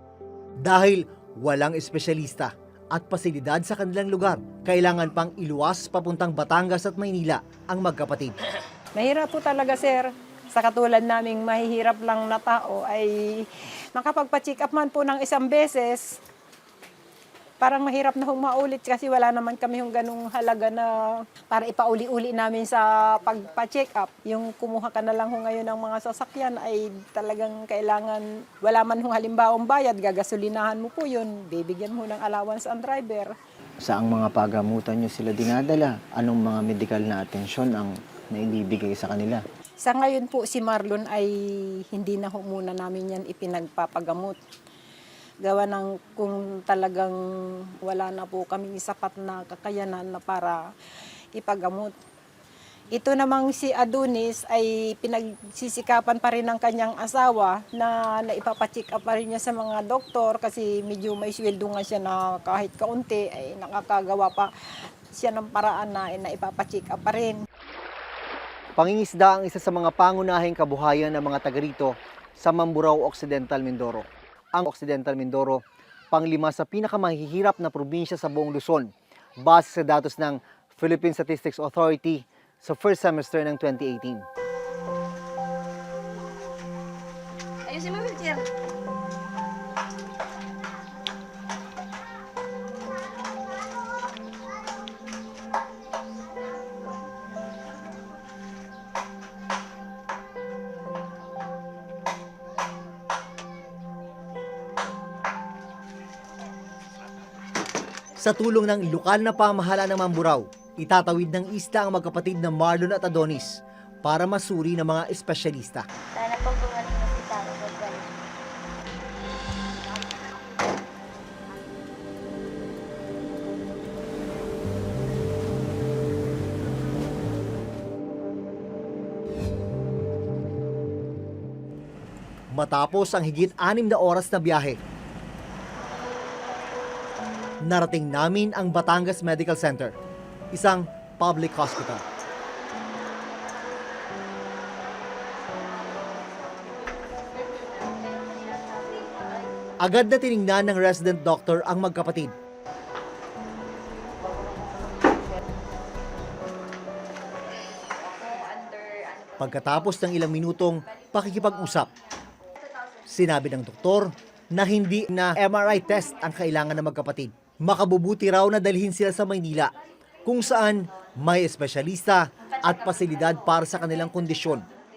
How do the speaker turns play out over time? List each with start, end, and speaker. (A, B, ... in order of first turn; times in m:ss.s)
0:00.6-0:08.4 A
0:09.0-0:16.2 B
0:17.6-0:33.3 B
0:33.8-0:39.4 C
0:39.8-0:41.3 B
0:41.9-0:44.4 B
0:45.4-0:47.2 B
0:47.8-0:50.6 B
0:51.4-0:51.9 B
0:52.9-1:04.5 B
1:05.1-1:07.4 B
1:08.8-1:15.6 A
1:16.1-1:18.9 A
1:19.4-1:24.3 A
1:48.2-1:55.9 A
1:56.2-1:58.2 D
2:12.5-2:14.8 A
2:17.6-2:19.9 A
2:20.5-2:22.0 A
2:29.8-2:32.3 A
2:39.4-2:41.9 A
2:43.1-2:49.7 A
2:50.2-2:54.7 A